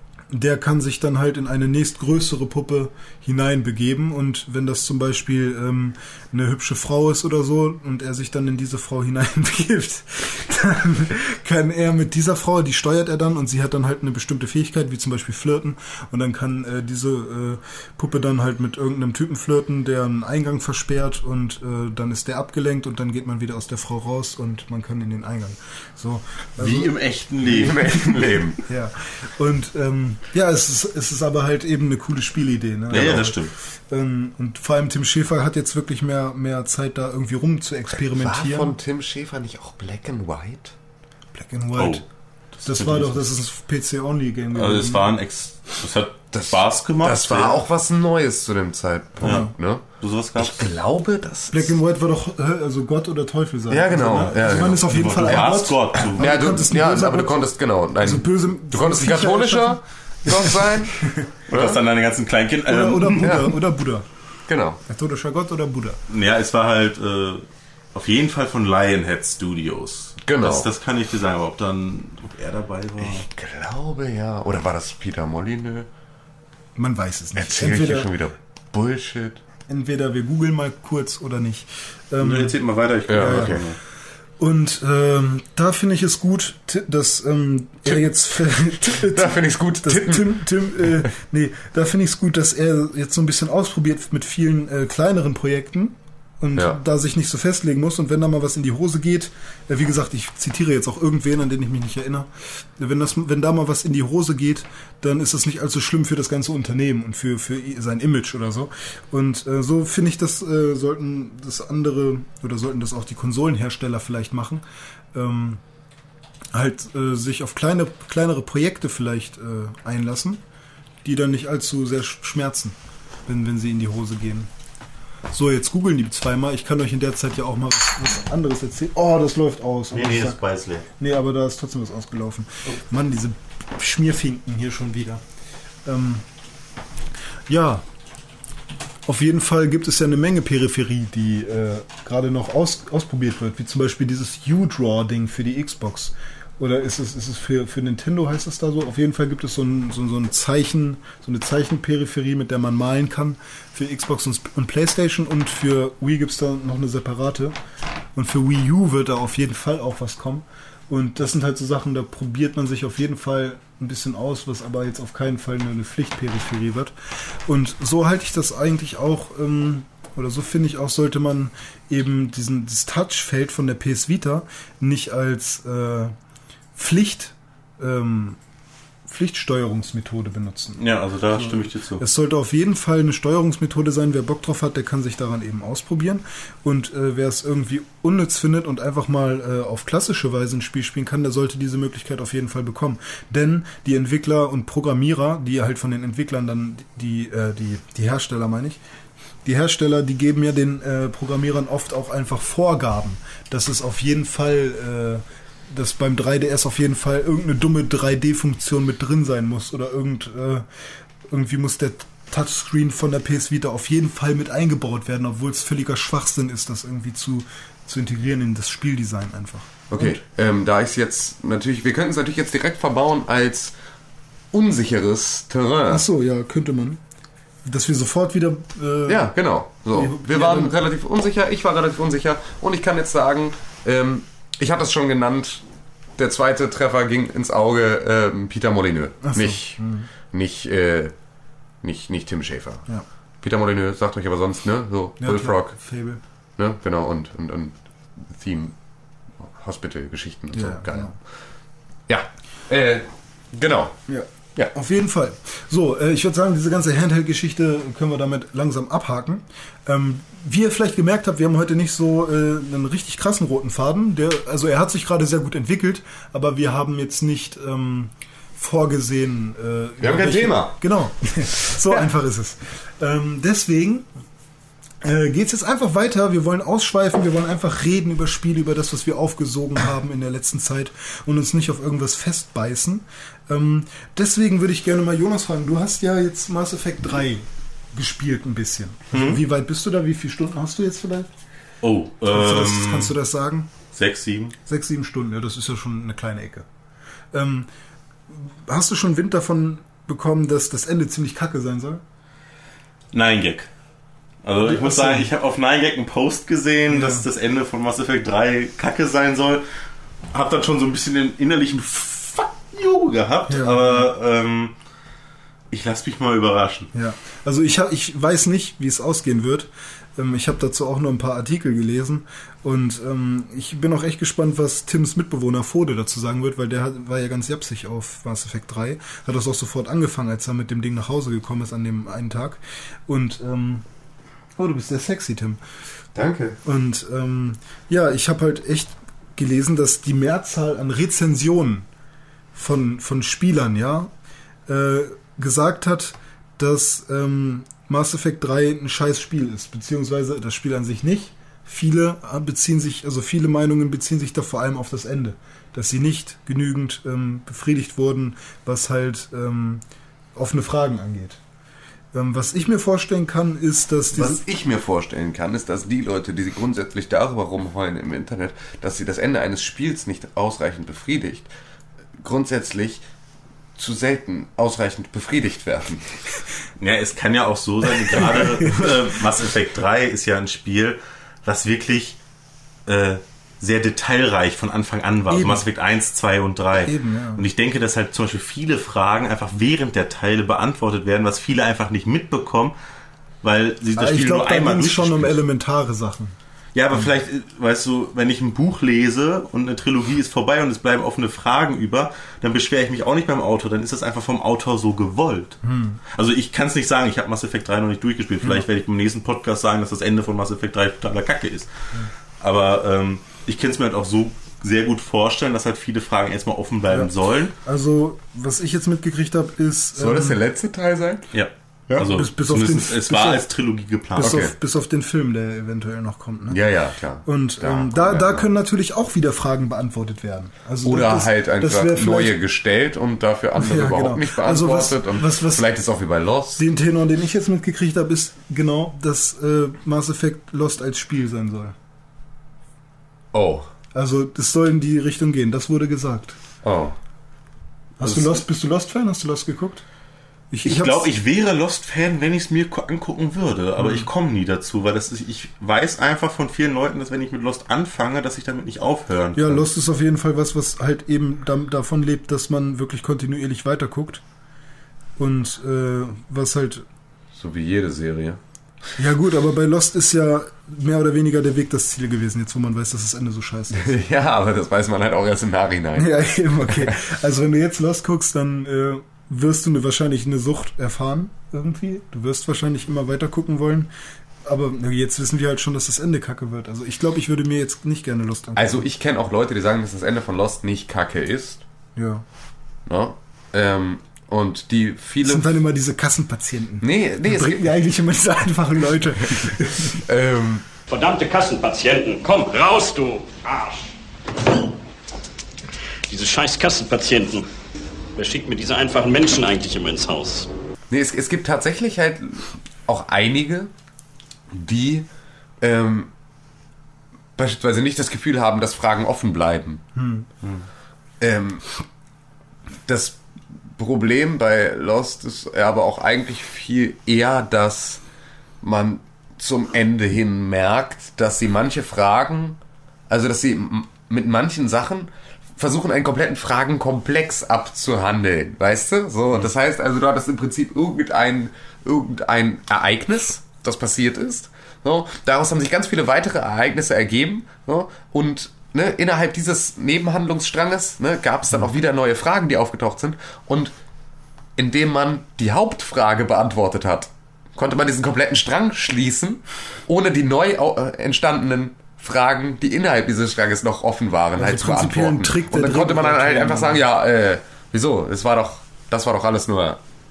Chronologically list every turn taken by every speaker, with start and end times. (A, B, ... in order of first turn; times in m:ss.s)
0:00.3-0:26.9 A
0:26.6-0:28.1 B
0:27.5-0:28.6 C
0:27.6-0:28.1 A
0:28.6-0:33.4 A
0:32.9-0:33.5 B
0:32.9-0:33.3 C
0:33.9-0:38.7 A
0:37.9-0:40.7 C
0:41.3-0:42.0 A
0:41.7-0:42.0 B
0:42.6-0:45.1 A
0:42.7-0:43.2 B
0:44.5-0:47.6 B
0:46.3-0:51.8 C
0:49.2-0:49.5 A
0:49.2-0:49.5 B
0:50.0-0:50.7 B
0:51.5-0:57.4 A
0:53.7-1:01.8 C
0:54.1-0:56.3 B
0:58.0-1:01.3 A
1:01.5-1:03.4 B
1:02.7-1:04.0 A
1:03.2-1:03.5 C
1:04.5-1:04.8 C
1:04.9-1:06.0 A
1:06.1-1:13.2 B
1:10.2-1:10.7 C
1:13.0-1:15.9 C
1:16.8-1:18.1 A
1:17.4-1:19.4 C
1:19.7-1:22.6 A
1:22.2-1:23.8 B
1:23.1-1:23.6 C
1:23.2-1:23.6 A
1:24.4-1:54.6 A
1:28.8-1:31.0 C
1:55.1-1:55.6 A
1:56.5-2:00.4 A
2:01.0-2:04.5 A
2:05.3-2:10.4 A
2:09.9-2:10.9 B
2:11.0-2:15.2 A
2:15.8-2:16.2 A
2:17.5-2:17.8 A
2:19.0-2:37.6 A
2:38.1-2:46.9 A
2:47.4-2:56.1 A
2:56.7-2:58.4 A
2:59.1-3:00.8 A
3:00.8-3:02.0 B
3:01.3-3:18.8 A
3:19.4-3:30.6 A
3:31.3-3:40.2 A
3:39.9-3:43.7 C
3:44.5-3:46.0 C
3:45.9-3:47.0 A
3:47.6-3:49.4 A
3:49.1-3:55.6 C
3:49.9-3:50.7 A
3:56.2-4:01.1 C
3:59.2-4:00.1 A
4:01.8-4:02.8 C
4:03.4-4:05.7 C
4:05.2-4:06.2 A
4:06.6-4:08.7 C
4:09.4-4:11.1 C
4:10.5-4:11.2 A
4:12.1-4:13.9 C
4:14.1-4:34.1 A
4:30.0-4:30.8 C
4:35.0-4:51.3 A
4:49.1-4:49.4 B
4:51.8-4:53.2 B
4:52.3-4:53.7 A
4:53.9-4:54.6 B
4:54.7-4:56.6 A
4:57.3-4:57.7 A
4:58.3-5:02.0 A
5:03.1-5:03.7 B
5:04.4-5:09.6 B
5:04.6-5:05.3 A
5:06.9-5:07.2 A
5:10.3-5:14.7 B
5:13.5-5:14.1 A
5:15.7-5:16.9 B
5:16.9-5:33.8 A
5:34.6-5:35.6 A
5:36.1-5:36.6 C
5:36.6-5:41.8 A
5:42.6-5:44.1 A
5:44.7-5:59.8 A
6:00.4-6:01.4 A
6:02.1-6:04.4 A
6:04.1-6:11.5 C
6:12.2-6:13.0 C
6:13.8-6:16.0 C
6:16.8-6:22.2 B
6:22.9-6:32.7 B
6:25.3-6:25.6 A
6:26.8-6:27.4 A
6:33.4-6:35.4 B
6:34.0-6:36.4 A
6:36.7-6:45.6 B
6:45.6-6:46.0 A
6:46.1-6:51.7 B
6:52.4-6:57.5 B
6:57.6-7:00.4 A
7:00.0-7:01.3 C
7:01.3-7:04.4 B
7:02.1-7:03.4 A
7:04.2-7:06.6 A
7:04.2-7:04.5 C
7:06.5-7:08.5 C
7:07.3-7:12.4 A
7:10.8-7:16.6 C
7:13.6-7:15.7 A
7:16.6-7:21.7 A
7:23.3-7:23.7 C
7:23.9-7:26.4 A
7:26.6-7:26.9 C
7:28.0-7:29.8 A
7:30.5-7:31.1 A
7:30.6-7:39.6 B
7:33.8-7:34.1 A
7:39.4-7:44.2 A
7:45.2-7:46.8 A
7:47.4-7:48.4 C
7:49.0-7:53.9 A
7:53.7-7:57.0 C
7:56.0-8:03.9 A
8:04.4-8:08.8 A
8:08.6-8:11.6 C
8:12.0-8:12.2 A
8:12.9-8:15.6 C
8:15.2-8:20.0 A
8:16.8-8:17.7 C
8:20.1-8:20.7 C
8:20.9-8:23.9 D
8:26.1-8:27.4 D
8:28.2-8:30.5 D
8:30.9-8:33.7 C
8:34.5-8:35.1 C
8:35.6-8:36.1 C
8:37.4-8:39.8 C
8:39.9-8:40.3 A
8:41.2-8:41.6 C
8:42.9-8:43.2 C
8:43.8-8:48.0 C
8:48.6-9:13.7 C
9:14.6-9:29.8 C
9:24.4-9:26.8 A